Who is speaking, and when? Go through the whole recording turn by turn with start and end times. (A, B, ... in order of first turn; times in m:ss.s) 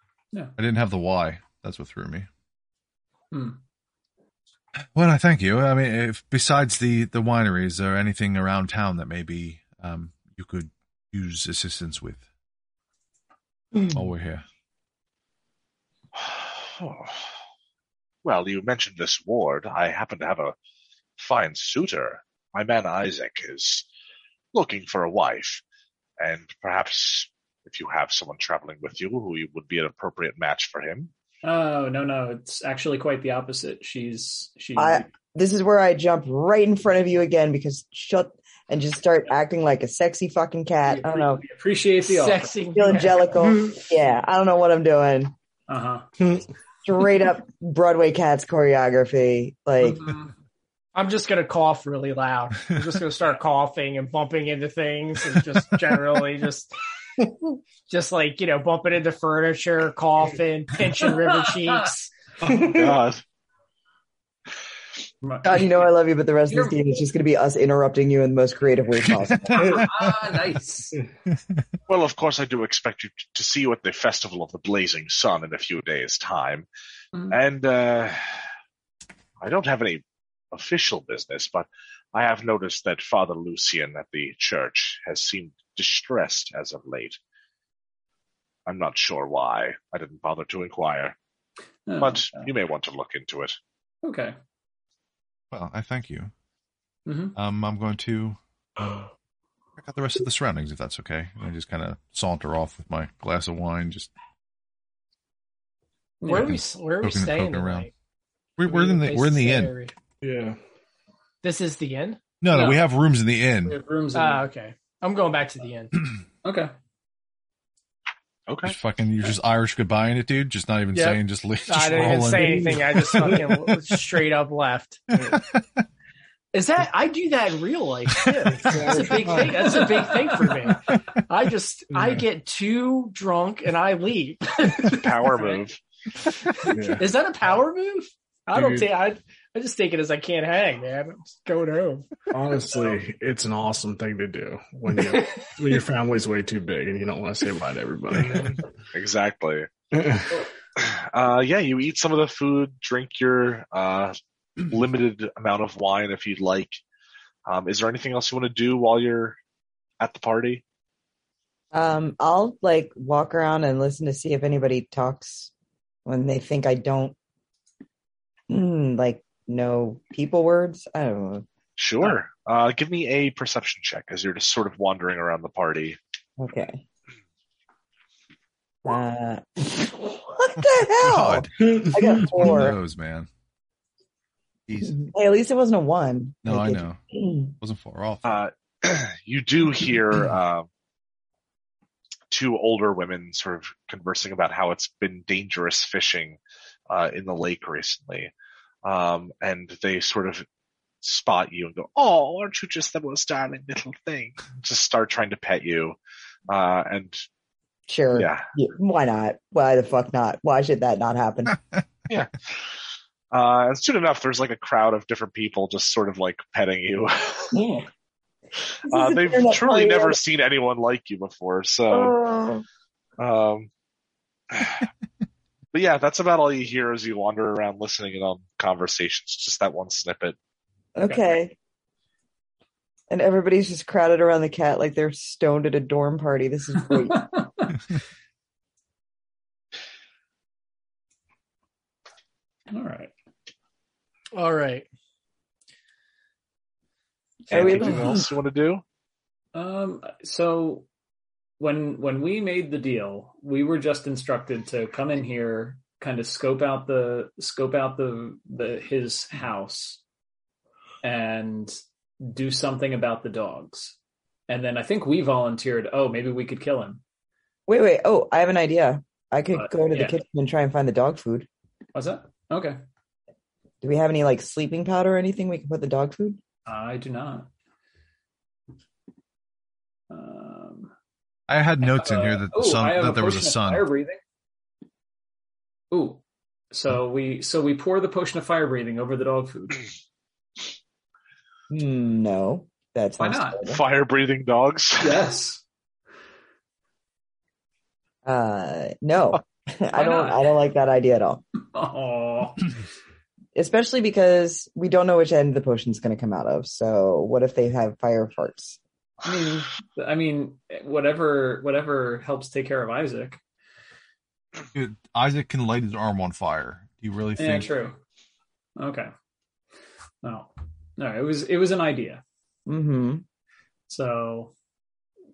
0:00.6-0:02.3 A
0:03.3-0:03.6 B
0:04.9-0:12.2 A
0:13.9-0:14.4 A
0:16.1-0:17.2 C
0:18.2-0:20.5 C
0:21.2-0:23.8 C
0:24.5-0:25.6 C
0:26.2-0:31.1 C
0:31.4-0:35.1 B
0:34.8-0:41.4 D
0:40.9-0:43.0 B
0:42.0-0:43.3 E
0:42.7-0:45.3 D
0:45.7-0:46.1 B
0:46.8-0:50.0 D
0:49.8-0:50.3 B
0:50.9-0:56.7 E
0:57.9-1:02.1 E
1:01.2-1:01.7 B
1:02.4-1:03.2 C
1:05.2-1:05.7 B
1:05.4-1:09.8 D
1:06.5-1:06.8 B
1:09.3-1:10.1 A
1:09.5-1:11.0 B
1:11.9-1:16.7 C
1:17.1-1:17.4 B
1:17.3-1:18.4 C
1:19.4-1:27.2 C
1:28.6-1:31.2 C
1:31.8-1:32.5 B
1:32.0-1:33.6 C
1:34.0-1:34.4 B
1:35.5-1:36.3 A
1:37.0-1:37.4 B
1:37.4-1:39.0 A
1:39.8-1:44.1 A
1:46.2-1:46.6 B
1:46.3-1:47.9 E
1:46.4-1:47.9 A
1:48.6-1:49.7 A
1:48.6-1:49.9 E
1:50.2-1:50.6 F
1:51.4-1:52.2 E
1:52.4-1:53.8 A
1:52.5-1:52.8 B
1:53.6-1:54.4 B
1:54.1-1:56.1 E
1:56.4-1:56.7 B
1:58.5-1:58.7 C
1:58.6-2:03.7 A
2:00.9-2:05.1 E
2:02.3-2:03.3 F
2:05.2-2:05.6 A
2:06.5-2:15.6 E
2:08.2-2:08.7 A
2:08.5-2:09.7 F
2:10.7-2:11.0 A
2:11.9-2:12.2 F
2:14.8-2:15.8 C
2:16.6-2:23.0 E
2:16.7-2:17.1 F
2:18.5-2:18.9 F
2:22.3-2:28.6 F
2:24.9-2:25.5 E
2:28.1-2:29.7 C
2:29.9-2:30.4 F
2:30.8-2:34.1 C
2:34.7-2:36.8 C
2:37.5-2:39.4 C
2:40.0-2:40.6 C
2:41.7-2:45.5 D
2:46.0-2:47.1 D
2:48.5-2:51.4 D
2:51.8-2:56.0 C
2:56.4-2:56.8 D
2:58.8-3:02.8 D
3:00.6-3:03.3 A
3:01.6-3:02.2 F
3:04.7-3:05.0 A
3:04.8-3:07.5 D
3:06.4-3:07.0 A
3:07.6-3:08.4 A
3:08.2-3:10.7 C
3:12.3-3:16.4 C
3:16.9-3:18.3 C
3:18.8-3:20.4 C
3:21.0-3:26.0 C
3:26.5-3:27.2 C
3:27.9-3:31.6 D
3:28.1-3:28.5 C
3:32.1-3:32.7 C
3:33.3-3:37.6 C
3:37.5-3:37.9 D
3:38.7-3:42.1 C
3:38.9-3:40.2 D
3:41.9-3:42.6 D
3:43.2-3:43.7 C
3:44.5-3:44.8 C
3:45.7-3:50.4 C
3:51.0-3:51.5 D
3:53.1-3:57.3 D
3:57.0-3:57.8 B
4:02.7-4:03.1 B
4:04.3-4:04.8 E
4:07.5-4:08.2 D
4:07.5-4:08.8 C
4:07.5-4:08.1 B
4:09.5-4:10.8 B
4:11.6-4:20.0 B
4:21.0-4:24.0 B
4:24.5-4:27.0 B
4:27.7-4:31.5 D
4:29.5-4:30.2 B
4:31.9-4:32.8 B
4:33.8-4:36.4 D
4:36.7-4:37.5 B
4:40.1-4:40.9 B
4:41.5-4:43.8 A
4:41.8-4:44.2 B
4:45.9-4:49.8 B
4:51.7-4:53.8 D
4:53.2-4:53.6 B
4:53.6-4:55.2 C
4:55.0-4:55.6 B
4:58.2-5:01.4 D
4:59.9-5:00.4 B
5:01.7-5:02.7 B
5:03.5-5:08.8 D
5:09.2-5:13.4 B
5:14.7-5:17.7 A
5:17.4-5:18.0 B
5:18.8-5:19.1 B
5:20.2-5:22.2 B
5:22.7-5:23.2 D
5:23.9-5:24.5 B